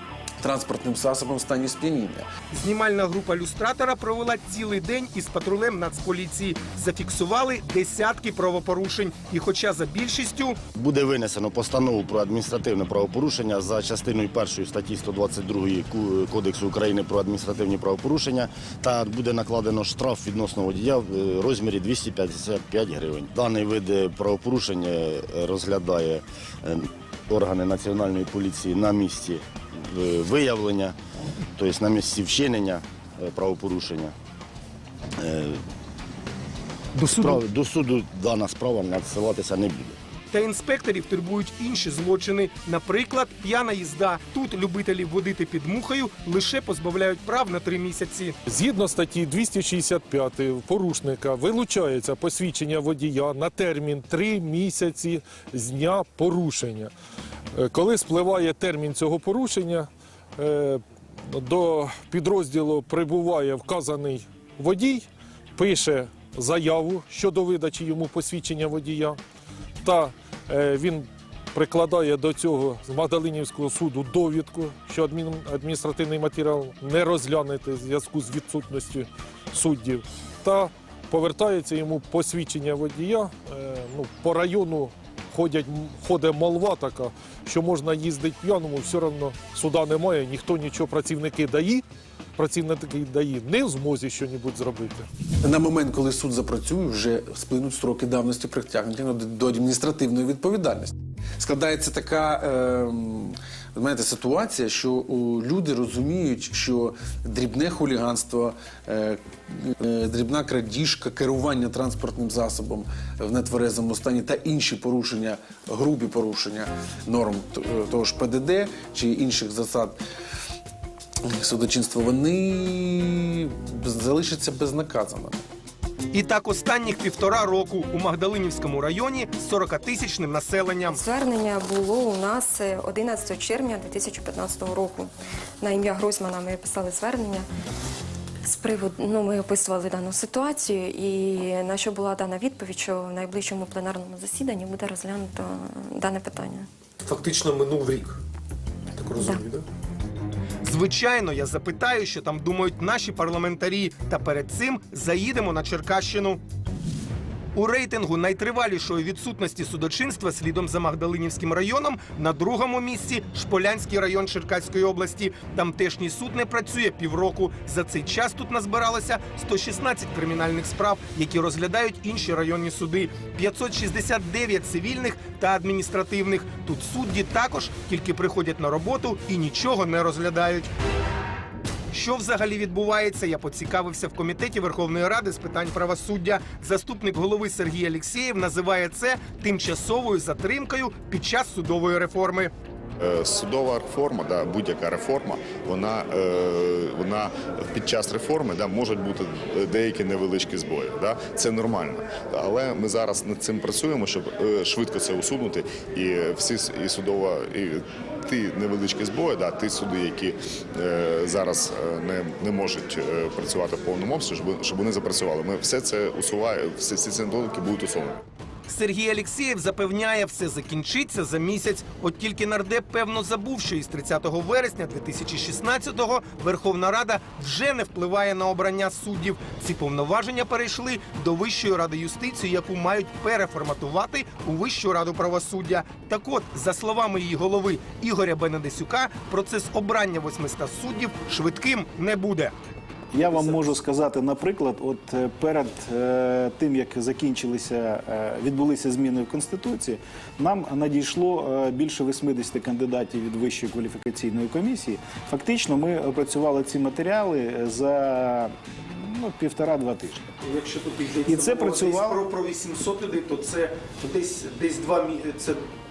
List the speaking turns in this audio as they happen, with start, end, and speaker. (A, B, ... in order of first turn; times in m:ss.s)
0:00.4-0:02.3 A
0:02.5-0:10.6 B
0:10.7-0:30.9 C
0:31.6-0:34.1 C
0:35.2-0:35.6 C
0:37.0-0:40.0 C
0:37.1-0:37.4 B
0:40.3-0:48.3 B
0:48.5-0:56.9 D
0:57.6-1:09.2 D
1:09.8-1:31.8 D
1:32.4-1:35.1 D
1:35.4-2:00.0 A
2:01.2-2:05.4 A
2:06.1-2:11.0 B
2:10.9-2:15.1 E
2:15.6-2:17.5 E
2:18.4-2:26.7 E
2:27.0-2:28.2 B
2:29.0-2:29.6 B
2:29.1-2:29.4 E
2:30.6-2:36.4 B
2:37.5-3:00.7 B
3:01.9-3:12.5 B
3:13.0-3:38.2 F
3:38.7-4:02.5 B
4:03.1-4:20.2 G
4:03.2-4:03.8 B
4:20.4-4:25.7 B
4:21.3-4:22.2 G